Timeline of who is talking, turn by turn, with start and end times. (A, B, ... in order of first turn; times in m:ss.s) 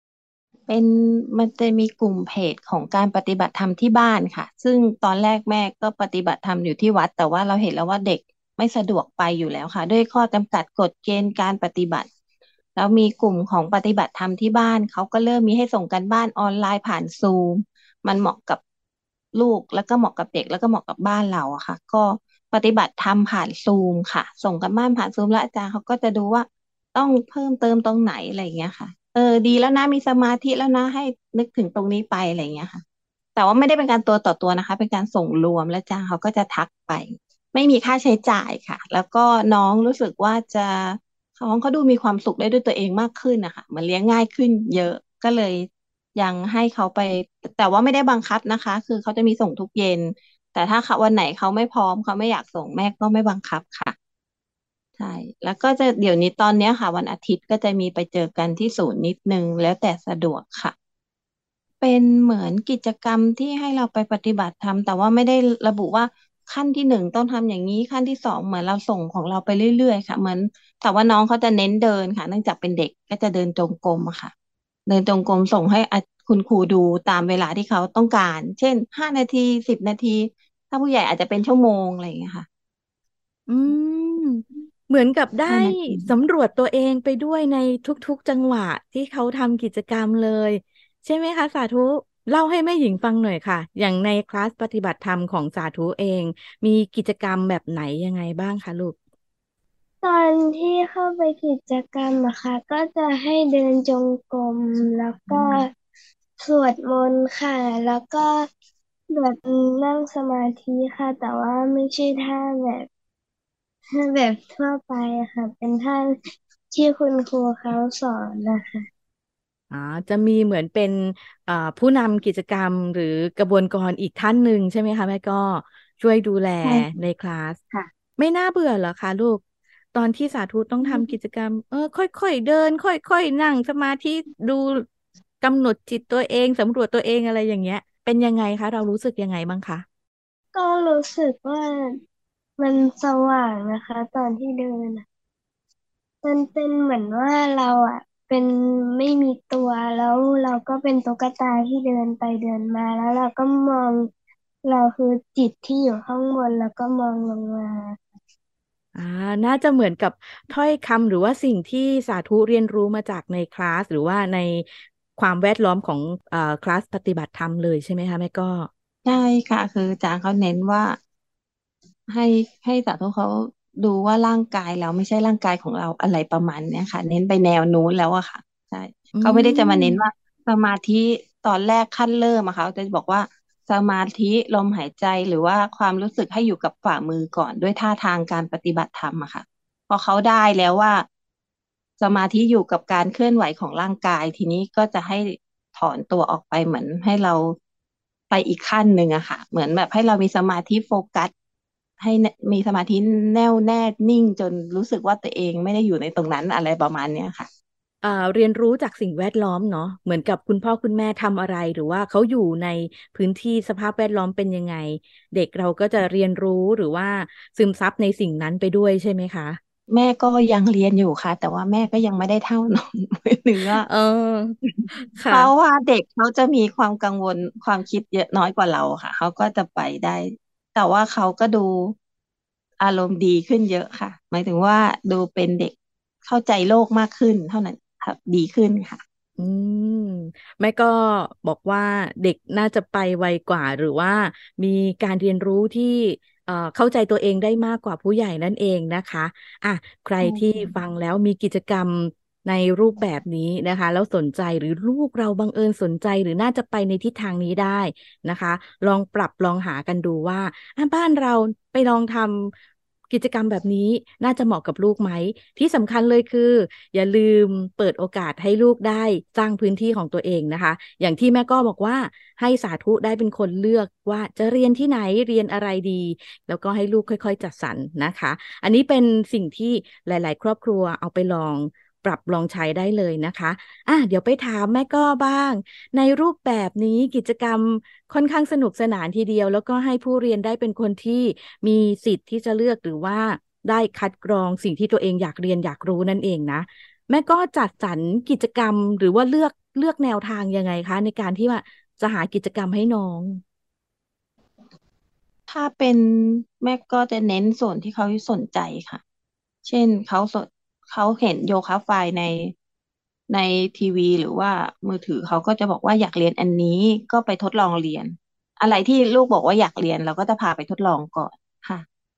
0:00.7-0:12.1 A
0:12.8-0:18.6 A
0:19.4-0:32.8 A
0:33.4-0:54.0 A
0:55.0-1:00.7 A
1:01.8-1:14.3 A
1:14.9-1:22.5 A
1:23.5-1:39.0 B
1:25.5-1:26.1 A
1:40.0-1:45.7 C
1:46.4-1:48.5 C
1:49.1-1:52.9 C
1:53.9-1:56.2 C
1:56.7-1:58.9 C
1:59.7-2:07.6 B
2:06.6-2:07.0 A
2:08.2-2:09.4 B
2:09.9-2:14.8 B
2:10.8-2:11.1 A
2:15.4-2:19.8 B
2:20.5-2:22.0 C
2:22.6-2:25.0 C
2:26.2-2:34.1 C
2:34.6-2:38.0 C
2:39.0-2:48.7 B
2:49.0-2:51.0 A
2:52.1-3:11.0 A
2:59.1-3:00.0 B
3:12.0-3:17.6 A
3:18.3-3:21.3 A
3:22.0-3:27.5 A
3:28.0-3:39.6 B
3:39.9-3:43.9 A
3:43.8-3:45.5 B
3:44.6-3:52.0 A
3:52.8-3:55.7 A
3:56.2-3:59.0 A
3:59.4-4:22.5 B
4:10.2-4:10.7 A
4:23.1-5:03.4 B
5:05.5-5:09.0 A
5:09.6-5:12.5 A
5:13.3-5:21.8 A